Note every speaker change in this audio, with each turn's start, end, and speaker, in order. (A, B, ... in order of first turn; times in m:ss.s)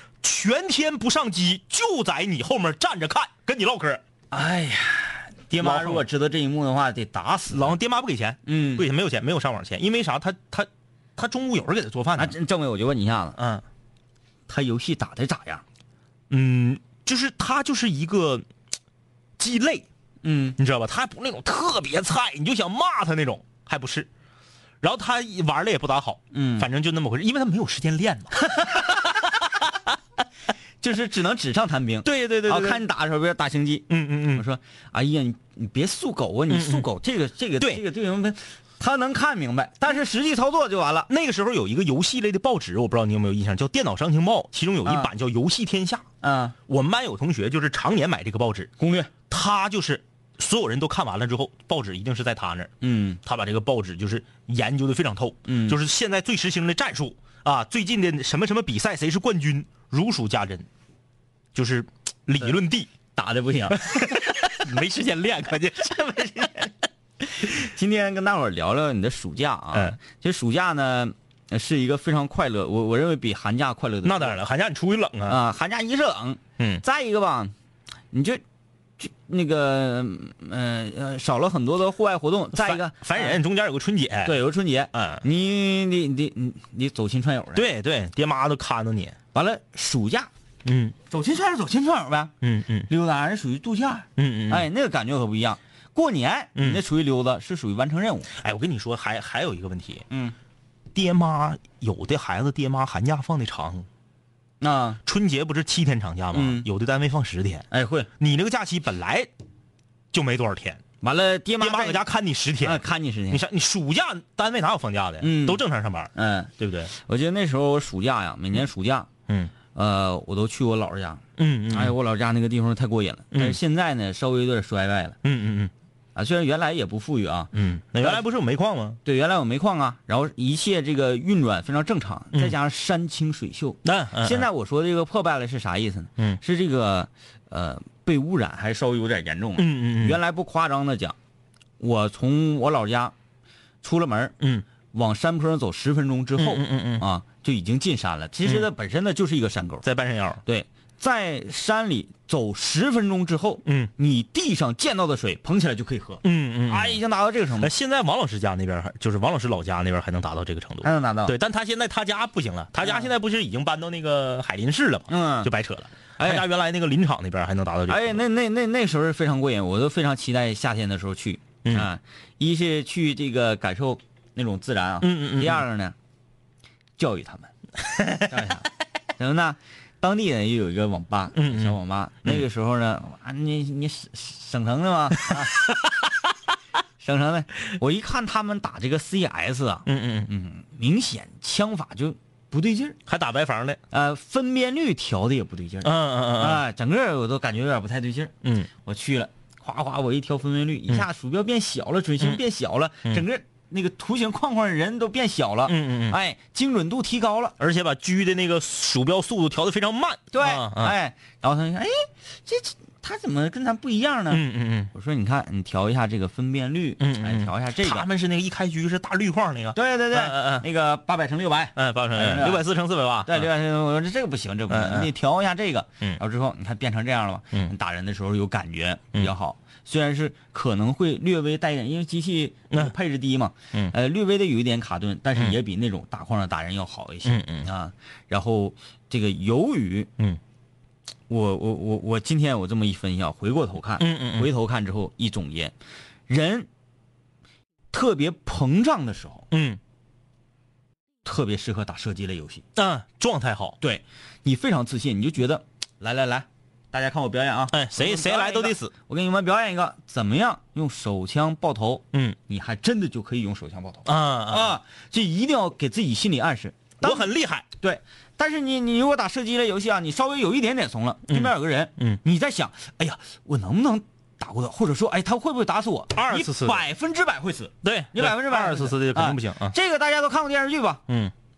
0:00.2-0:04.0 A
0:04.3-0:07.8 B
0:05.5-0:06.1 A
0:07.5-0:12.4 A
0:08.5-0:08.9 B
0:12.2-0:13.4 B
0:13.4-0:13.6 A
0:14.5-0:15.6 B
0:16.3-0:18.5 A
0:19.4-0:19.9 A
0:20.2-0:20.6 B
0:20.6-0:24.1 A
0:24.8-0:28.8 A
0:26.3-0:26.7 B
0:30.8-0:41.1 B
0:32.0-0:32.8 A
0:33.9-0:34.4 A
0:36.5-0:36.9 A
0:41.1-0:46.1 A
0:44.9-0:45.1 B
0:46.2-0:46.6 B
0:46.7-0:48.7 A
0:48.8-0:49.1 B
0:49.3-1:00.7 A
0:52.8-0:53.2 B
0:55.5-0:55.8 B
1:01.5-1:02.9 A
1:03.1-1:04.2 B
1:03.7-1:06.7 A
1:07.3-1:14.4 B
1:09.7-1:10.0 A
1:14.0-1:15.4 A
1:15.3-1:17.5 B
1:18.1-1:18.4 B
1:19.0-1:23.4 B
1:22.5-1:24.4 A
1:24.2-1:27.6 B
1:24.9-1:25.2 A
1:27.6-1:29.2 A
1:29.3-1:30.3 B
1:30.6-1:31.0 A
1:31.1-1:32.3 B
1:32.4-1:32.9 A
1:32.9-1:38.3 B
1:34.2-1:34.7 A
1:36.6-1:36.8 A
1:38.4-1:40.1 A
1:40.1-1:40.4 B
1:40.9-1:43.9 A
1:44.6-1:45.0 B
1:45.0-1:47.7 A
1:46.3-1:46.7 B
1:47.7-1:48.1 B
1:48.2-1:49.3 A
1:50.1-1:50.8 A
1:51.0-1:52.0 B
1:51.6-1:56.9 A
1:52.6-1:53.4 B
1:55.2-1:55.6 B
1:56.1-1:59.1 B
1:59.3-1:59.5 A
1:59.7-2:05.2 B
2:01.4-2:02.0 A
2:03.3-2:03.6 A
2:05.2-2:05.7 A
2:06.2-2:08.2 B
2:07.5-2:09.0 A
2:09.0-2:21.2 B
2:13.8-2:14.5 A
2:19.6-2:20.2 A
2:21.8-2:23.1 B
2:23.8-2:24.4 B
2:24.4-2:24.7 A
2:24.9-2:29.9 B
2:26.4-2:27.1 A
2:28.4-2:28.7 A
2:29.8-2:30.4 A
2:30.4-2:37.7 B
2:33.6-2:33.9 A
2:36.2-2:37.0 A
2:37.6-2:48.2 A
2:40.8-2:41.4 B
2:45.1-2:45.5 B
2:46.2-2:46.5 B
2:47.9-2:56.0 B
2:55.0-2:55.6 A
2:57.0-2:57.5 B
2:58.0-2:58.3 A
2:58.3-3:05.7 B
3:01.4-3:02.4 A
3:05.3-3:05.7 A
3:07.0-3:13.0 B
3:09.9-3:10.3 A
3:13.1-3:13.8 A
3:13.9-3:18.3 B
3:15.8-3:16.6 A
3:18.4-3:18.7 A
3:18.8-3:27.6 B
3:25.7-3:26.2 A
3:27.6-3:31.0 A
3:30.3-3:38.1 B
3:34.3-3:34.9 A
3:37.0-3:40.7 A
3:39.8-3:42.6 B
3:41.8-3:43.5 A
3:43.2-4:00.1 B
3:44.7-3:45.1 A
3:57.2-3:57.7 A
4:01.3-4:05.7 B
4:04.0-4:04.5 A
4:06.3-4:06.7 B
4:07.9-4:09.5 B
4:09.5-4:09.8 A
4:11.2-4:12.6 B
4:12.8-4:13.8 A
4:13.8-4:41.0 B
4:17.7-4:18.9 A
4:24.1-4:24.8 A
4:27.0-4:27.7 A
4:31.3-4:32.2 A
4:36.1-4:36.8 A
4:37.8-4:39.8 A
4:41.1-4:41.3 A